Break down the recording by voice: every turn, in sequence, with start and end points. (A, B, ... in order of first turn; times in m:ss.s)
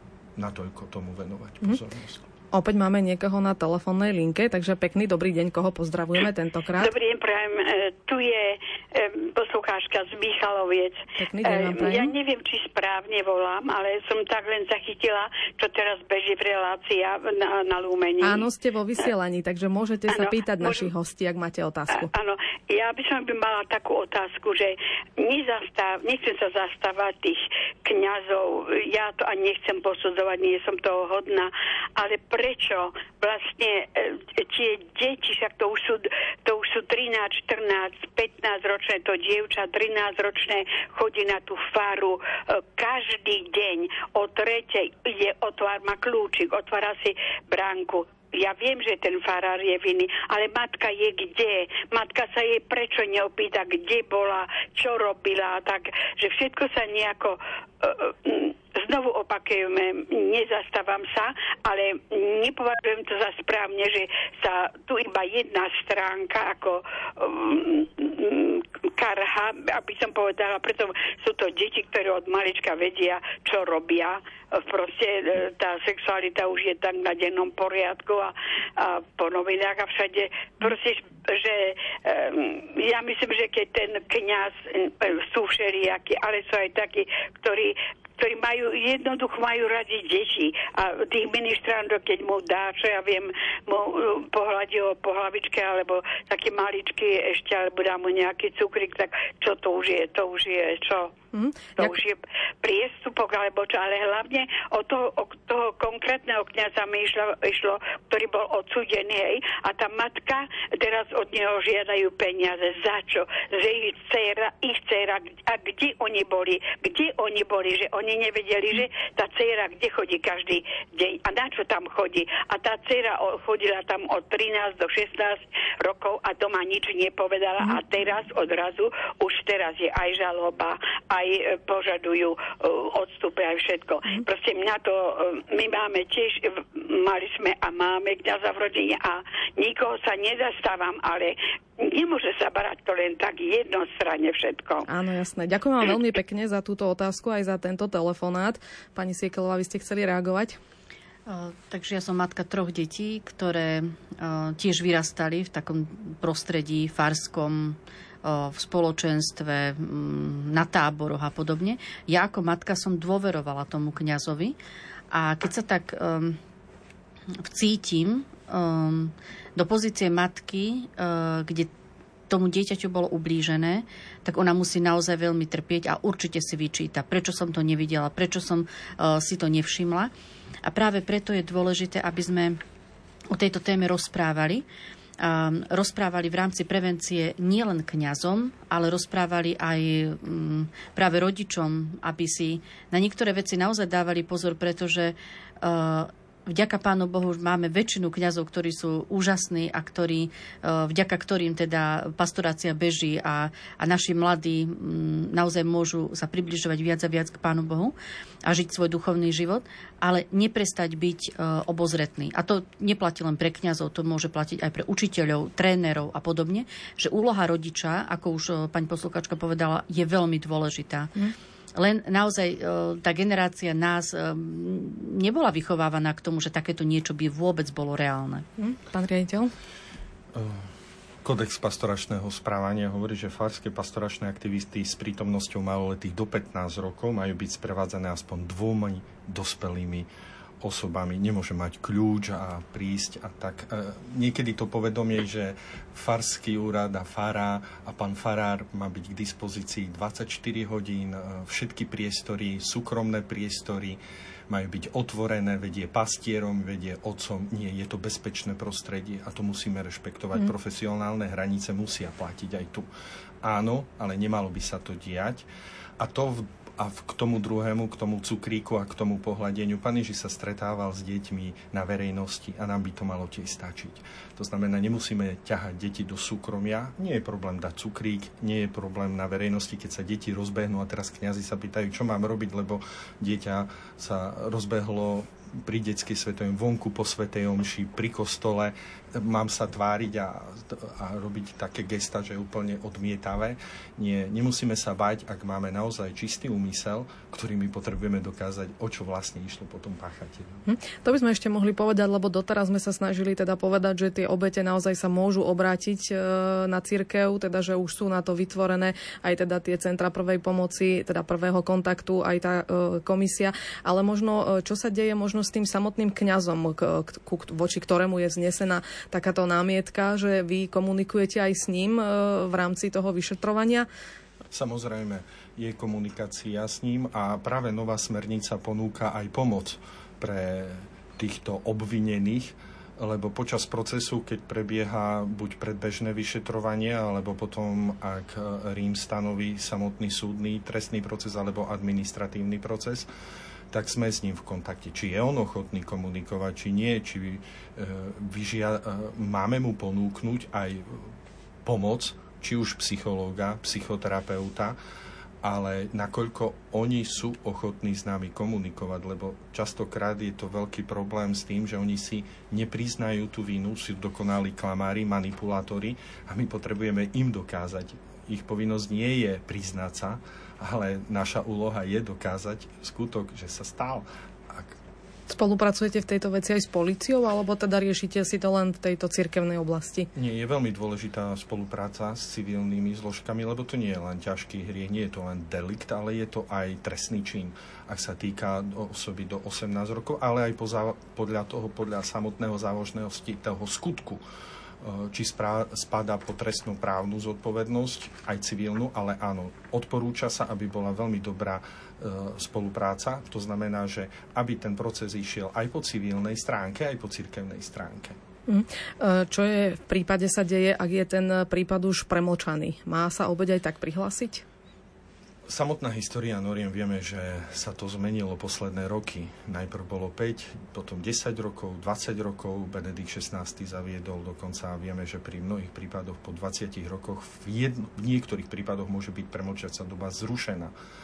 0:00.4-0:02.2 A
0:02.5-0:06.9 B
0:06.8-0:18.4 C
0:11.2-0:12.1 B
0:18.2-0:22.1 B
0:20.1-0:20.9 C
0:21.9-1:41.1 C
1:41.3-1:42.0 B
1:41.8-2:24.9 C
2:24.9-2:30.6 B
2:31.3-2:44.6 D
2:45.1-2:46.4 D
2:47.4-2:51.7 D
2:52.3-3:00.1 D
3:00.6-3:02.6 D
3:03.3-3:04.6 D
3:05.2-3:41.1 D
3:41.8-3:48.4 D
3:48.6-3:49.5 B
3:50.3-3:50.7 A
3:51.2-4:00.1 A
4:00.6-4:22.9 A
4:23.4-4:25.5 A
4:26.0-5:00.6 A
5:00.6-5:23.9 B
5:24.5-5:43.1 A
5:43.7-5:51.1 A
5:51.6-5:54.8 A
5:55.4-6:14.7 A
6:15.3-6:20.1 B
6:20.1-6:34.2 A
6:34.8-6:48.2 A
6:48.5-6:54.4 B
6:55.4-7:10.7 A